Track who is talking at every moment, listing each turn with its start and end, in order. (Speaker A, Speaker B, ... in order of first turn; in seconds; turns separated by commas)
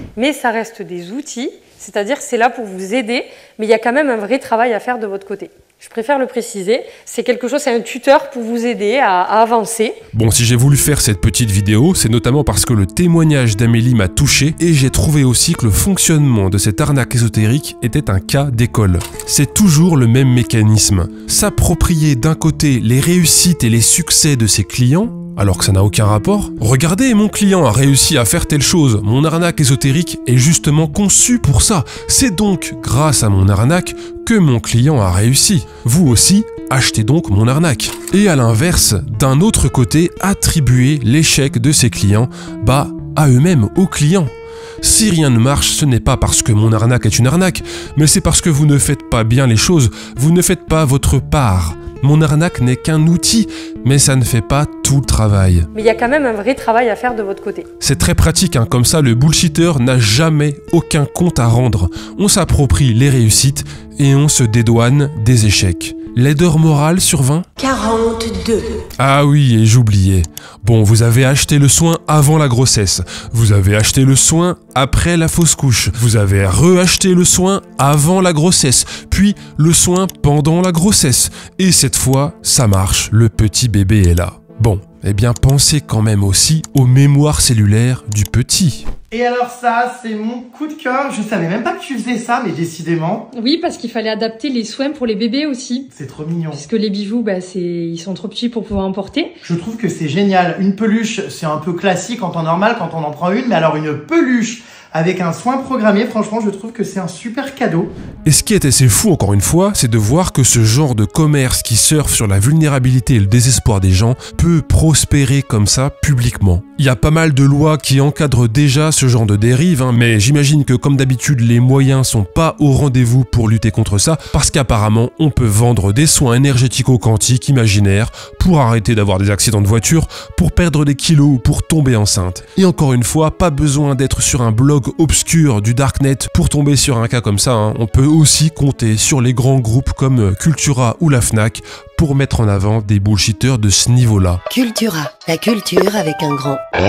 Speaker A: 0.1-10.0, Speaker B: 10.1-44.3, Speaker B: 44.8-55.7, Speaker A: 55.7-57.7, Speaker B: 57.8-67.5, Speaker C: 67.6-68.8, Speaker B: 69.0-88.9, Speaker D: 89.1-93.3, Speaker A: 93.3-95.9, Speaker D: 95.9-96.6, Speaker A: 96.5-99.3, Speaker D: 99.4-107.9, Speaker B: 108.2-144.4, Speaker C: 144.5-146.6